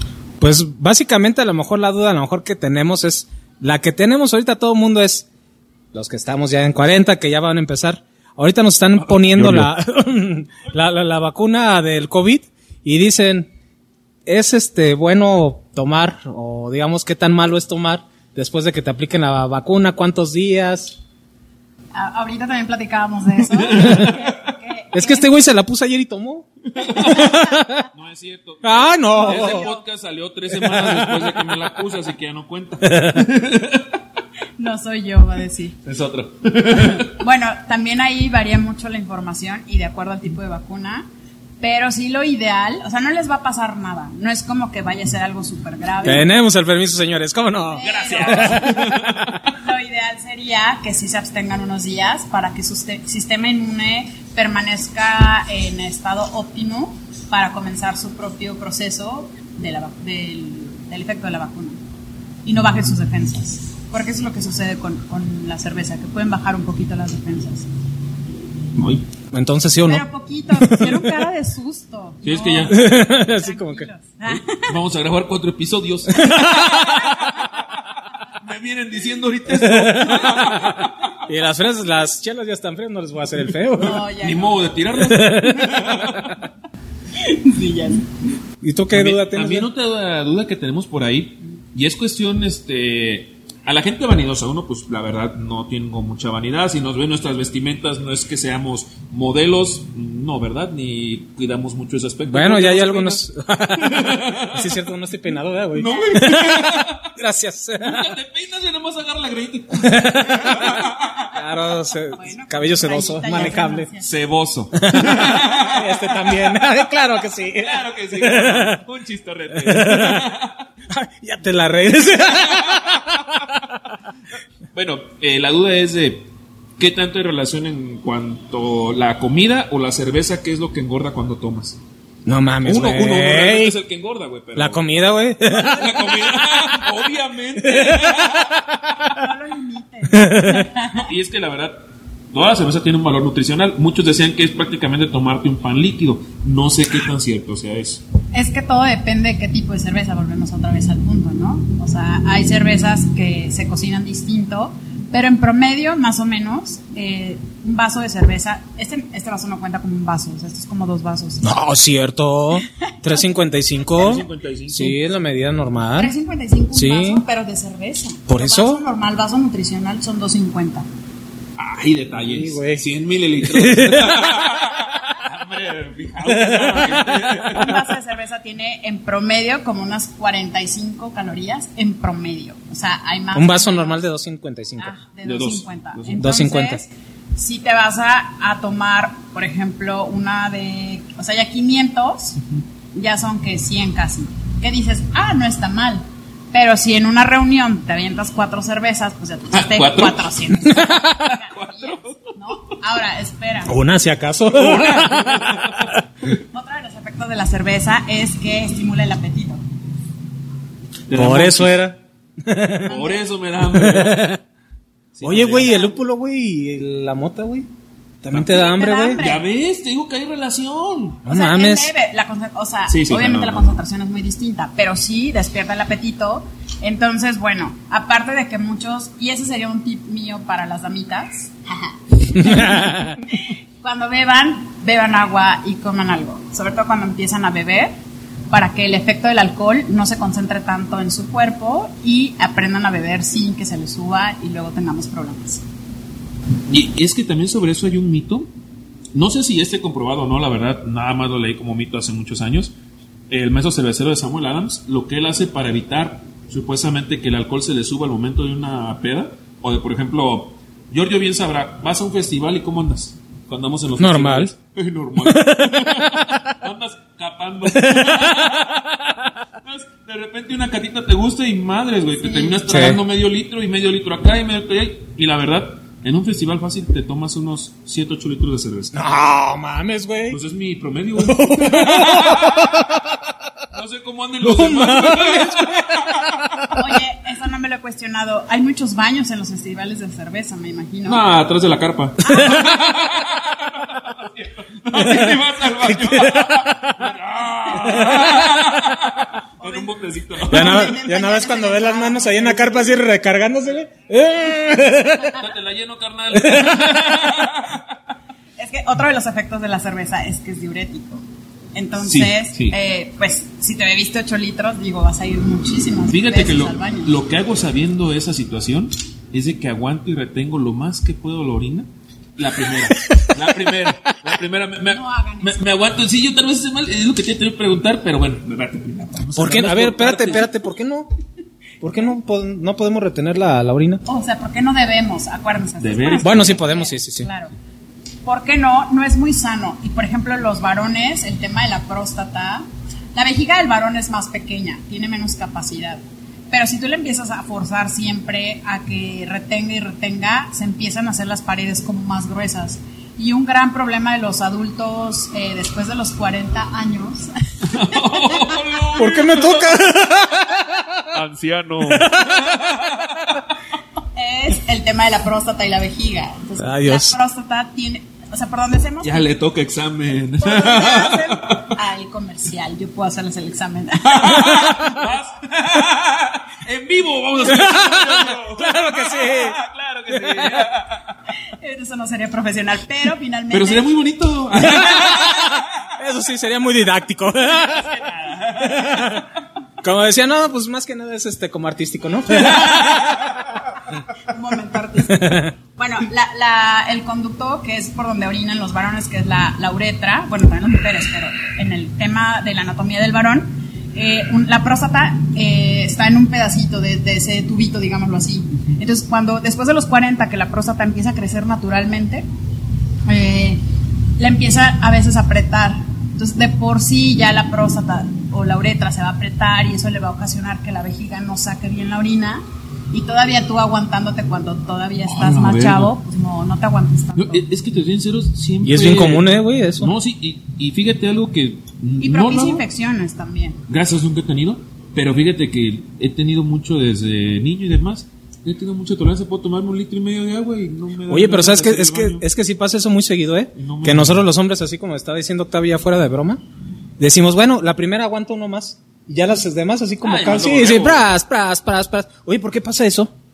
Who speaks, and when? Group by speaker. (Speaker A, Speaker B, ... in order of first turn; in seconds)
Speaker A: 0.4-5.3, 5.9-13.5, 14.3-21.0, 23.8-24.1, 24.9-27.9, 28.6-29.7, 30.5-31.6, 32.8-33.2, 46.0-49.4, 69.3-70.1, 70.6-71.1, 72.7-73.9, 76.2-77.1, 79.5-84.0, 84.9-85.8, 88.6-89.7, 102.3-108.2, 109.8-110.8, 111.3-113.9, 114.7-118.8, 119.5-120.3, 120.9-123.6, 132.3-133.8, 134.6-136.3, 137.6-139.1, 140.1-140.7, 161.4-166.1, 166.7-167.2, 168.3-168.8, 172.3-172.8, 173.4-174.5, 176.3-177.7, 183.3-184.9, 186.2-186.8, 203.7-205.9, 211.1-213.0, 213.6-214.4, 215.2-217.7, 218.2-219.2, 221.3-221.9, 232.7-232.9, 264.0-264.5, 265.2-266.4, 267.7-268.6, 272.7-273.0, 278.9-280.4, 281.2-283.3, 284.4-286.8, 295.0-297.1, 297.8-298.9, 300.5-305.4, 306.3-307.3, 322.9-323.4, 329.4-331.1, 331.8-334.0, 336.2-337.3, 359.0-361.1, 361.9-362.6, 366.6-367.2, 377.4-379.6, 380.1-380.7, 384.6-388.1, 388.6-389.3, 389.8-393.6, 395.1-395.5, 428.6-429.9, 441.1-446.4, 447.0-453.1
Speaker B: 9.2-9.7, 23.8-24.1, 26.8-34.0, 35.9-37.2, 47.8-49.3, 68.8-69.0, 72.2-72.8, 74.3-77.5, 78.3-81.1, 84.1-86.4, 88.9-103.2, 103.8-104.8, 105.8-107.1, 107.8-111.3, 114.0-116.6, 117.5-120.6, 122.5-123.0, 124.7-126.3, 126.8-131.8, 132.7-134.9, 135.5-138.6, 140.9-141.8, 142.3-148.0, 163.9-165.0, 171.6-177.8, 185.2-186.3, 199.5-200.3, 201.0-202.3, 204.5-205.9, 211.1-211.9, 212.8-214.2, 215.2-215.8, 218.3-218.6, 219.2-221.3, 222.9-223.8, 246.7-248.5, 249.1-252.7, 253.3-279.0, 280.3-282.8, 283.7-286.5, 291.1-301.0, 305.3-307.8, 312.0-312.8, 316.1-330.5, 335.8-336.6, 357.7-359.9, 361.1-363.4, 369.0-371.7, 374.1-381.0, 383.5-385.9, 387.6-389.2, 392.3-393.3, 425.0-425.9, 427.2-432.6, 433.7-442.2, 443.6-444.3, 450.0-451.1
Speaker C: 21.9-25.3, 29.1-29.8, 34.6-35.8, 36.9-41.1, 41.6-46.3, 47.7-48.8, 49.4-61.8, 62.5-67.7, 69.9-74.7, 83.8-84.7, 87.2-88.2, 112.1-114.1, 139.1-141.1, 148.3-161.5, 166.0-170.9, 177.4-184.0, 184.8-203.8, 206.5-209.6, 212.9-213.2, 218.4-219.4, 221.3-237.9, 238.5-245.6, 272.2-272.6, 286.7-291.2, 292.2-292.7, 299.6-302.8, 308.6-311.2, 311.7-317.1, 324.9-325.7, 334.1-337.5, 338.2-358.6, 364.1-369.3, 370.4-374.8, 381.5-383.9, 394.3-412.3, 413.1-413.6, 414.2-427.4, 432.0-433.6